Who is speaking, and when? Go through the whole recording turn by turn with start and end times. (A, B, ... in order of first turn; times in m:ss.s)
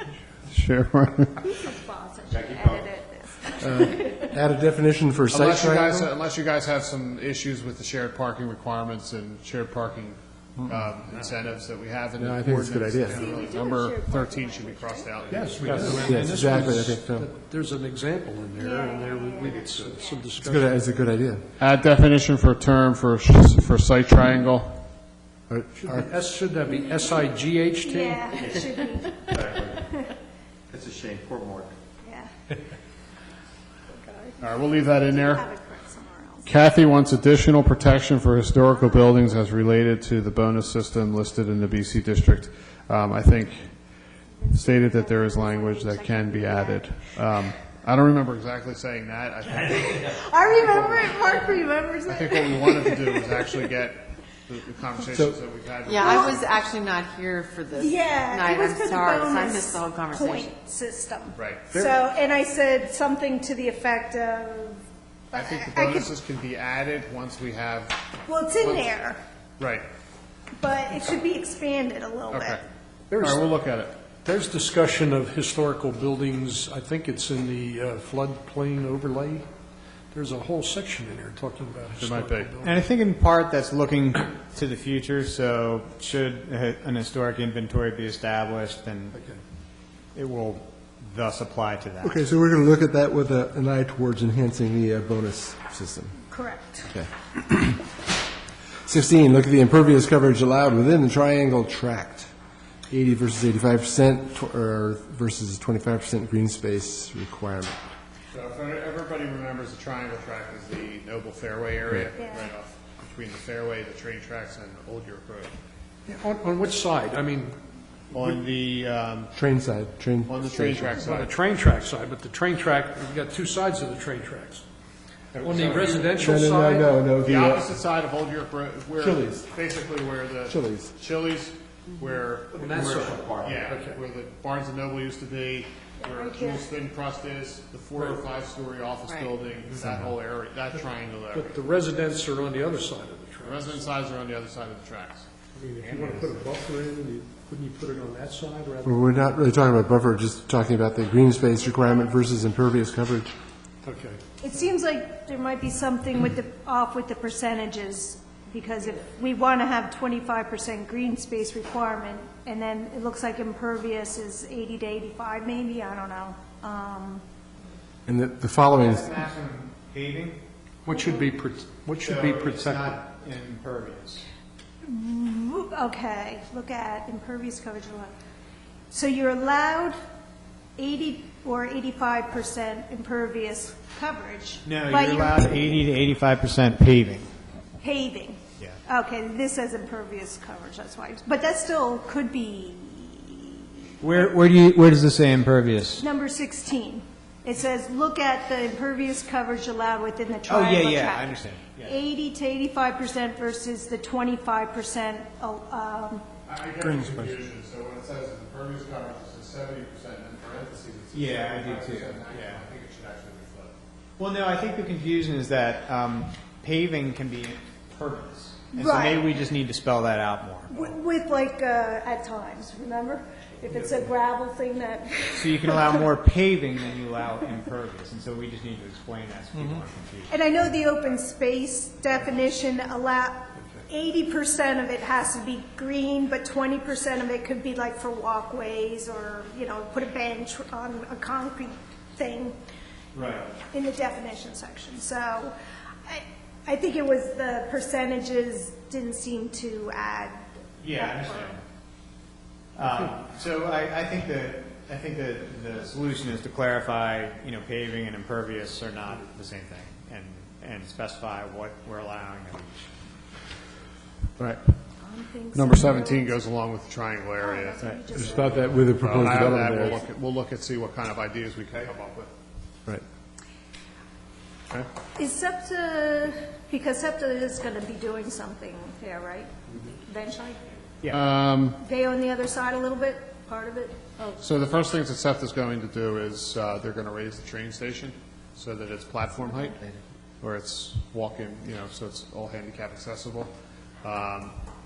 0:00.5-0:01.4 A
0:01.4-0:04.4 B
0:02.3-0:02.8 C
0:03.6-0:06.1 D
0:05.3-0:16.2 A
0:10.6-0:10.9 D
0:12.2-0:13.3 D
0:13.1-0:15.5 B
0:15.3-0:20.8 E
0:15.6-0:17.3 D
0:15.7-0:16.8 F
0:18.5-0:20.3 B
0:20.4-0:21.4 D
0:21.6-0:24.8 A
0:25.5-0:26.1 D
0:25.8-0:28.6 E
0:26.8-0:27.1 B
0:27.8-0:30.1 B
0:28.4-0:28.6 C
0:29.3-0:29.8 C
0:30.7-0:31.7 C
0:32.0-0:32.3 B
0:33.9-0:36.5 B
0:34.4-0:35.4 A
0:36.4-0:43.8 A
0:38.7-0:39.1 B
0:44.4-0:47.1 B
0:44.5-0:51.1 A
0:49.8-0:53.5 B
0:52.1-0:56.6 A
0:55.1-0:55.4 D
0:55.8-1:00.5 G
0:56.0-0:56.4 B
0:57.7-1:04.8 B
1:01.3-1:01.8 A
1:05.3-1:06.1 B
1:05.3-1:08.0 A
1:08.2-1:09.2 B
1:08.6-1:08.9 A
1:09.6-1:09.8 A
1:10.6-1:12.6 B
1:12.3-1:14.0 A
1:13.1-1:13.4 E
1:14.2-1:19.4 E
1:20.1-1:22.8 E
1:22.0-1:22.5 A
1:22.6-1:29.2 F
1:29.1-1:29.4 E
1:30.1-1:32.2 F
1:32.0-1:36.2 D
1:36.3-1:36.9 B
1:36.9-1:37.8 D
1:38.8-1:42.3 D
1:42.9-1:47.8 D
1:48.3-1:55.5 A
1:52.2-1:52.5 B
1:56.0-1:57.6 E
1:58.1-1:59.3 A
1:59.3-2:01.0 D
2:00.3-2:01.4 A
2:01.0-2:04.6 E
2:05.4-2:06.0 A
2:05.4-2:06.9 E
2:05.4-2:06.0 F
2:06.1-2:07.7 D
2:07.2-2:12.7 A
2:09.0-2:09.4 D
2:10.4-2:10.9 D
2:12.5-2:13.7 C
2:12.6-2:14.0 E
2:13.4-2:21.6 A
2:16.0-2:16.7 B
2:17.9-2:18.2 E
2:19.1-2:19.4 G
2:21.3-2:23.8 E
2:23.4-2:25.2 A
2:25.5-2:29.3 E
2:28.8-2:33.3 D
2:33.8-2:34.2 E
2:34.4-2:47.2 B
2:48.1-2:49.1 D
2:48.6-2:50.4 F
2:50.8-2:53.0 E
2:50.9-2:51.2 B
2:52.0-2:54.2 F
2:54.8-2:58.1 B
2:58.9-3:00.0 B
3:00.8-3:05.7 B
3:04.6-3:07.3 F
3:07.8-3:14.3 B
3:14.0-3:16.0 F
3:16.0-3:26.2 B
3:20.5-3:22.0 F
3:26.4-3:33.7 A
3:26.8-3:27.3 D
3:31.1-3:32.6 F
3:34.2-3:40.9 F
3:38.7-3:39.4 B
3:40.7-3:46.1 B
3:45.3-3:50.3 F
3:50.3-4:02.6 B
4:03.1-4:03.5 F
4:03.6-4:05.5 B
4:06.0-4:10.4 B
4:10.8-4:11.6 F
4:10.9-4:11.6 B
4:12.8-4:22.9 F
4:24.4-4:24.6 A
4:25.0-4:26.4 B
4:25.5-4:32.3 A
4:27.4-4:30.0 B
4:28.1-4:30.0 D
4:35.2-4:40.7 B
4:41.1-4:41.8 A
4:41.8-4:44.4 B
4:44.4-4:49.8 A
4:49.4-4:49.7 B
4:50.4-4:53.5 A
4:54.0-4:54.6 A